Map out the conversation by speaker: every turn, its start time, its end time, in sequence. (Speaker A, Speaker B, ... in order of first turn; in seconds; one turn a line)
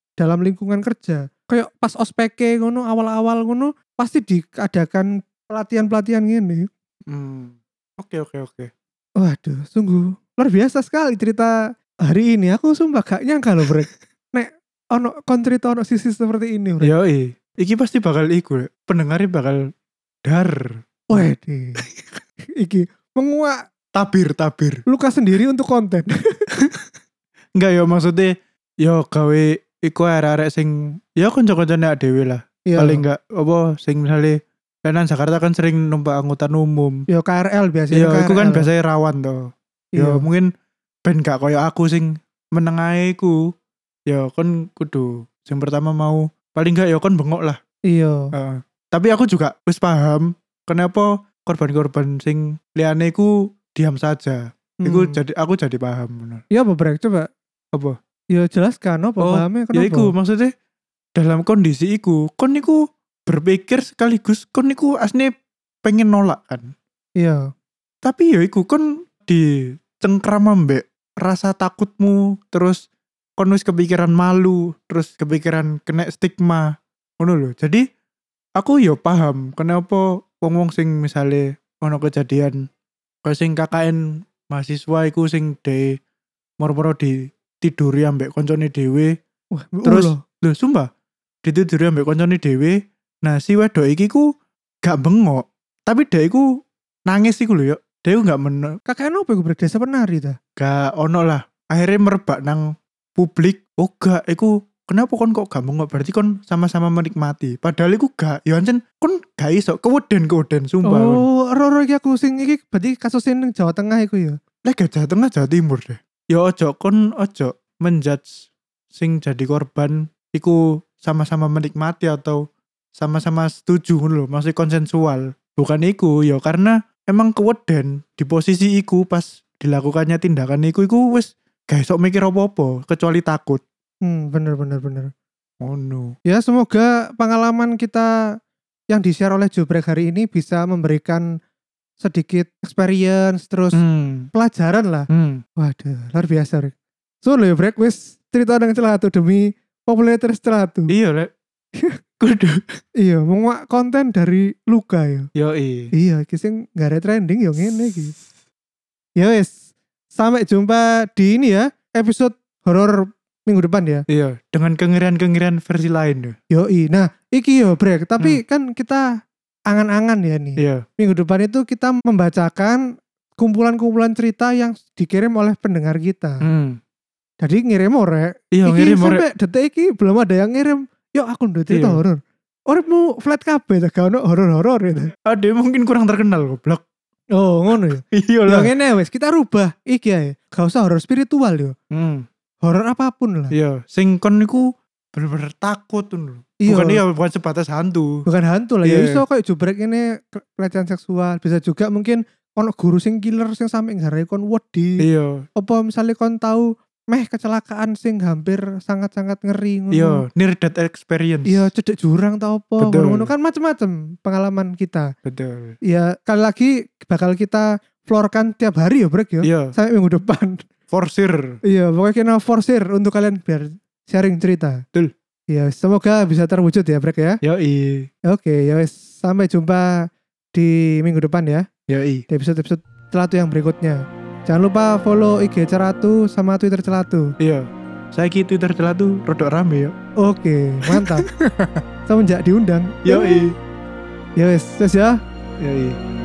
Speaker A: 0.2-6.7
Speaker B: 7.1-8.7
Speaker A: 9.2-11.5
Speaker A: 12.0-16.9
Speaker B: 16.8-19.7
Speaker B: 20.2-21.2
Speaker A: 21.1-21.8
Speaker B: 21.8-22.2
Speaker A: 22.6-23.6
Speaker B: 23.9-24.8
Speaker A: 24.9-26.1
Speaker B: 26.6-26.9
Speaker B: 27.6-37.0
Speaker A: 32.7-33.0
Speaker A: 37.1-38.7
Speaker B: 37.9-40.5
Speaker A: 40.0-40.2
Speaker B: 41.0-43.4
Speaker B: 44.1-47.6
Speaker A: 47.9-48.3
Speaker B: 48.3-56.4
Speaker A: 54.8-55.2
Speaker A: 56.5-57.3
Speaker A: 58.3-60.1
Speaker B: 59.2-60.5
Speaker B: 61.1-65.3
Speaker B: 65.8-66.7
Speaker B: 68.0-69.4
Speaker B: 70.0-72.8
Speaker B: 73.4-76.7
Speaker B: 77.2-77.8
Speaker B: 78.6-82.6
Speaker B: 83.2-86.0
Speaker B: 86.6-89.1
Speaker A: 89.5-90.2
Speaker B: 89.8-90.9
Speaker B: 91.4-94.3
Speaker B: 94.8-96.5
Speaker B: 97.0-98.8
Speaker A: 98.9-100.4
Speaker B: 100.6-102.6
Speaker B: 103.2-111.2
Speaker A: 110.8-114.4
Speaker B: 114.6-122.4
Speaker B: 123.0-133.6
Speaker A: 134.0-135.1
Speaker B: 135.6-136.1
Speaker A: 136.2-138.1
Speaker A: 138.9-141.2
Speaker A: 142.0-143.8
Speaker B: 143.7-144.3
Speaker A: 144.3-146.7
Speaker B: 145.1-145.4
Speaker A: 147.2-150.9
Speaker B: 150.9-151.3
Speaker B: 152.2-152.8
Speaker A: 153.0-155.3
Speaker B: 155.3-155.9
Speaker A: 155.9-158.2
Speaker A: 159.2-159.5
Speaker A: 160.1-164.0
Speaker B: 164.1-166.3
Speaker A: 166.5-169.1
Speaker A: 169.7-172.8
Speaker B: 170.6-170.8
Speaker A: 173.4-176.4
Speaker B: 176.4-176.8
Speaker A: 177.4-185.1
Speaker B: 178.5-179.2
Speaker B: 181.7-182.0
Speaker B: 185.2-186.8
Speaker A: 187.3-191.7
Speaker B: 188.0-188.7
Speaker B: 191.9-192.2
Speaker A: 192.6-193.5
Speaker B: 193.5-198.2
Speaker A: 196.6-197.0
Speaker A: 198.3-205.0
Speaker B: 198.8-199.2
Speaker B: 205.0-205.4
Speaker A: 205.6-210.2
Speaker B: 209.9-211.7
Speaker A: 211.5-215.1
Speaker B: 212.8-213.3
Speaker B: 215.2-215.8
Speaker A: 215.8-220.6
Speaker B: 219.4-219.7
Speaker B: 220.9-221.6
Speaker A: 221.7-224.8
Speaker A: 225.5-227.4
Speaker B: 227.4-228.1
Speaker A: 228.3-231.6
Speaker B: 231.9-232.2
Speaker A: 232.3-237.3
Speaker B: 237.4-239.9
Speaker A: 240.2-241.2
Speaker B: 240.9-241.8
Speaker A: 242.1-243.5
Speaker B: 243.0-243.5
Speaker A: 244.4-245.2
Speaker B: 245.6-246.0